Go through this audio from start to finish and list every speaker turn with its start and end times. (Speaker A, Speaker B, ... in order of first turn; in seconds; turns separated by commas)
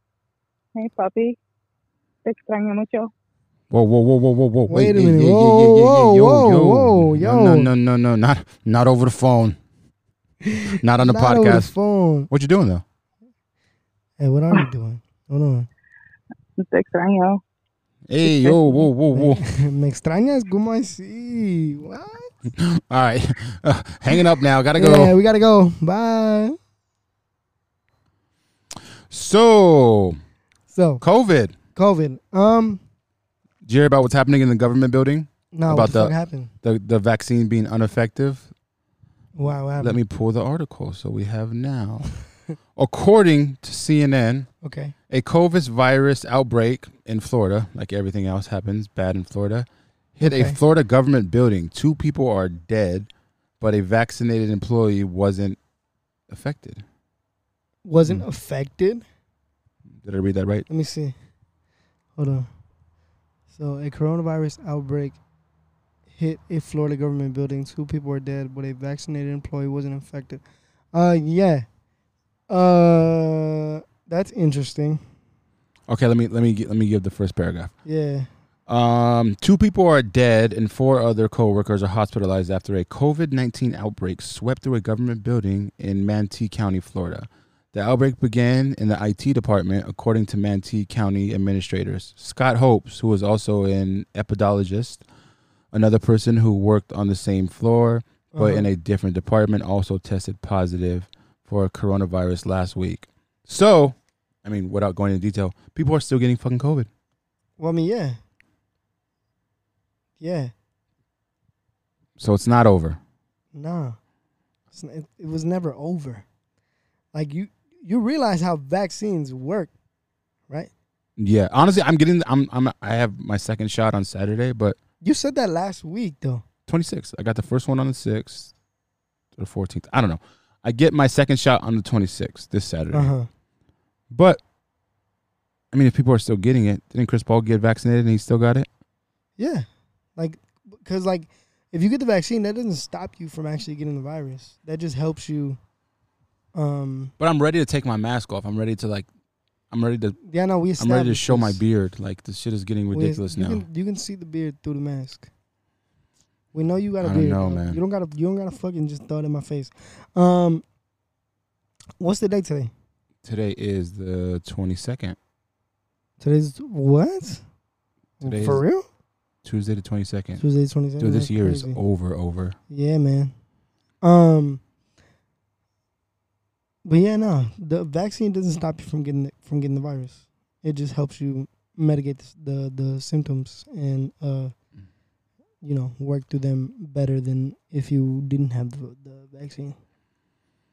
Speaker A: 0.7-1.4, Speaker A: 2.2-3.1, Speaker B: 3.7-9.6, Speaker C: 4.7-7.7, Speaker C: 10.4-12.3, Speaker B: 10.8-11.7, Speaker B: 12.3-12.8, Speaker C: 14.2-15.7, Speaker A: 16.6-17.4, Speaker B: 18.1-19.4, Speaker A: 18.2-18.8, Speaker C: 19.1-22.3, Speaker B: 22.5-25.2, Speaker C: 24.8-26.6, Speaker B: 29.1-30.2, Speaker C: 30.7-31.0, Speaker B: 31.0-31.6, Speaker C: 31.7-32.8, Speaker B: 33.6-38.5, Speaker C: 35.5-36.5, Speaker C: 39.4-40.0, Speaker B: 39.8-42.1, Speaker B: 42.8-44.5, Speaker C: 44.6-44.9, Speaker B: 45.1-55.6, Speaker C: 50.2-50.6, Speaker B: 56.3-56.8, Speaker C: 57.8-59.0, Speaker B: 60.0-60.7, Speaker C: 60.7-61.1, Speaker C: 62.2-62.5, Speaker C: 63.5-65.2, Speaker C: 66.1-71.7, Speaker C: 72.5-75.0, Speaker B: 75.9-77.7, Speaker C: 77.8-78.3, Speaker B: 78.7-95.0, Speaker B: 95.7-106.9, Speaker C: 98.3-98.7, Speaker C: 107.6-108.2, Speaker C: 110.2-110.5, Speaker B: 112.2-113.0, Speaker C: 113.5-114.0, Speaker C: 114.7-116.2, Speaker C: 117.1-119.7, Speaker B: 121.2-124.8, Speaker C: 125.0-126.4, Speaker B: 126.7-128.5, Speaker B: 129.3-133.1, Speaker C: 132.9-133.3, Speaker B: 134.1-134.4, Speaker B: 135.7-138.7, Speaker C: 139.4-145.6, Speaker C: 146.5-147.1, Speaker B: 147.2-149.1, Speaker B: 149.7-150.2, Speaker C: 150.2-151.6, Speaker B: 150.8-153.6, Speaker C: 152.9-155.3, Speaker C: 156.5-160.6, Speaker B: 157.0-157.8, Speaker C: 162.0-162.7, Speaker B: 163.2-165.2, Speaker C: 166.2-167.4, Speaker C: 168.2-168.8, Speaker B: 168.2-168.6, Speaker B: 169.4-170.4, Speaker C: 170.4-171.8, Speaker B: 171.0-172.6, Speaker C: 172.7-173.3, Speaker C: 174.0-174.6, Speaker C: 176.8-184.5, Speaker C: 185.6-189.8